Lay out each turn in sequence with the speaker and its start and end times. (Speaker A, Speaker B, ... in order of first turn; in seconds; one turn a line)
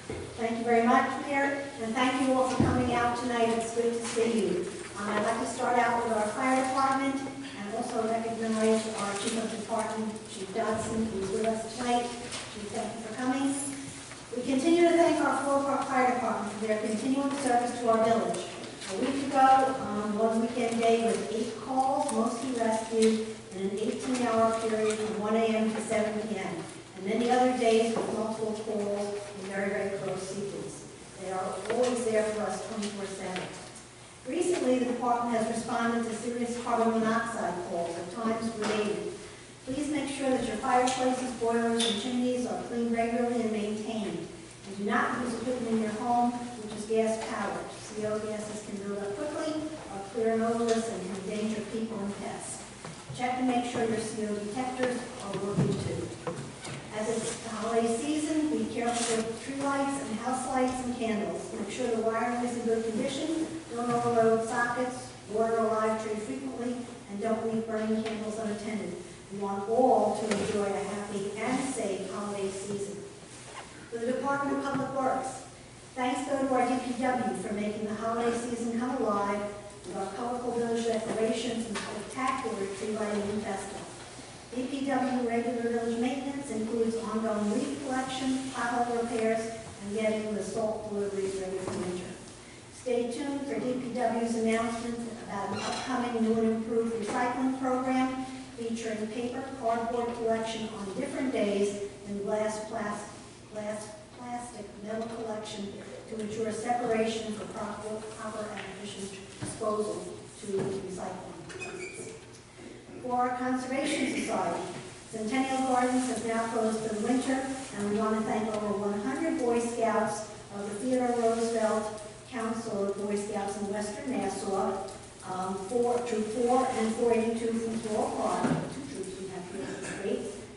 Speaker A: 0.3-13.7
Speaker A: 14.3-33.6
Speaker A: 34.2-39.1
Speaker A: 39.6-56.1
Speaker A: 56.9-73.0
Speaker A: 73.9-75.4
Speaker A: 75.9-83.9
Speaker A: 84.5-92.2
Speaker A: 92.7-112.1
Speaker A: 113.0-130.3